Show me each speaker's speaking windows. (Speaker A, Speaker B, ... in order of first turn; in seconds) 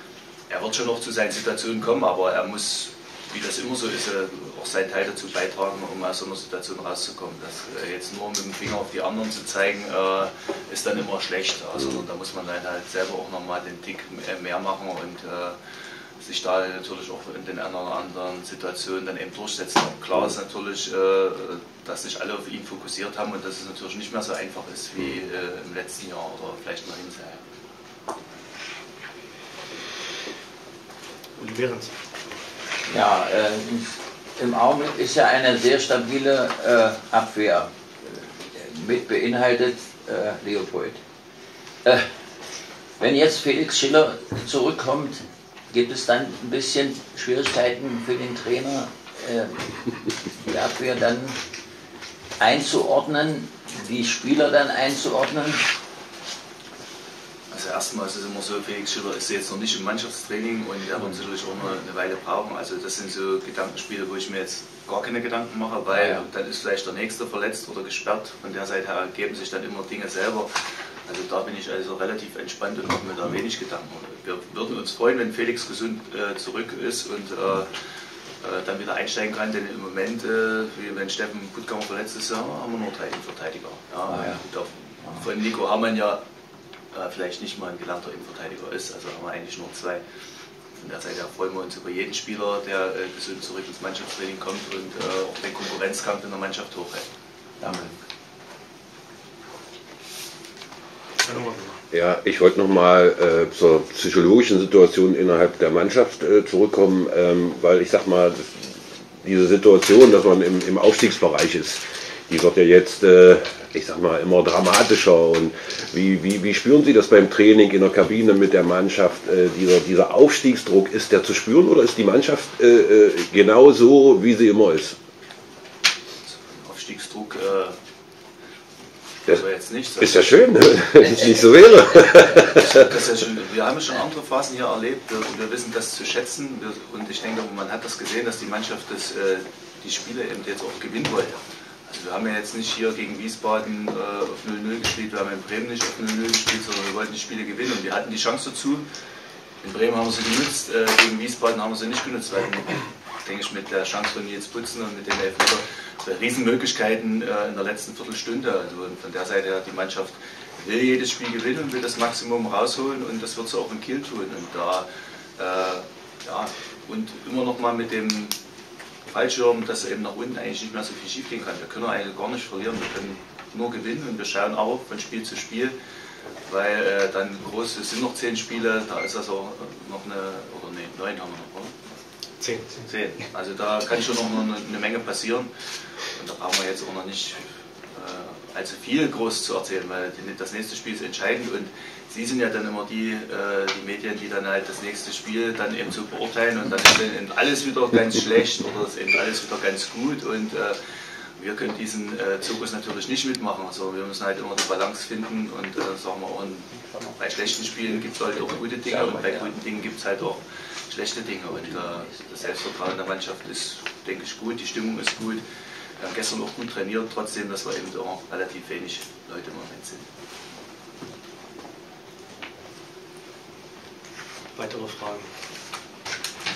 Speaker A: 0.5-15.6, 16.2-27.4, 57.5-70.5, 71.1-77.7, 78.4-86.2, 86.9-90.0, 90.8-97.1, 126.2-127.7, 129.2-130.3, 132.5-148.8, 149.6-164.8, 165.4-168.3, 169.1-175.7, 176.5-181.7, 182.8-185.5, 186.1-187.4, 187.9-200.8, 201.4-215.4, 216.0-220.1
Speaker B: 31.4-31.9, 101.2-101.8, 182.4-182.8, 224.6-225.2
Speaker C: 32.9-41.0, 43.0-49.6, 50.4-51.4, 52.4-55.6, 65.9-66.2, 84.1-84.4, 97.6-97.9, 208.3-209.5, 211.8-212.5
Speaker D: 101.9-108.7, 109.2-125.0, 130.0-132.7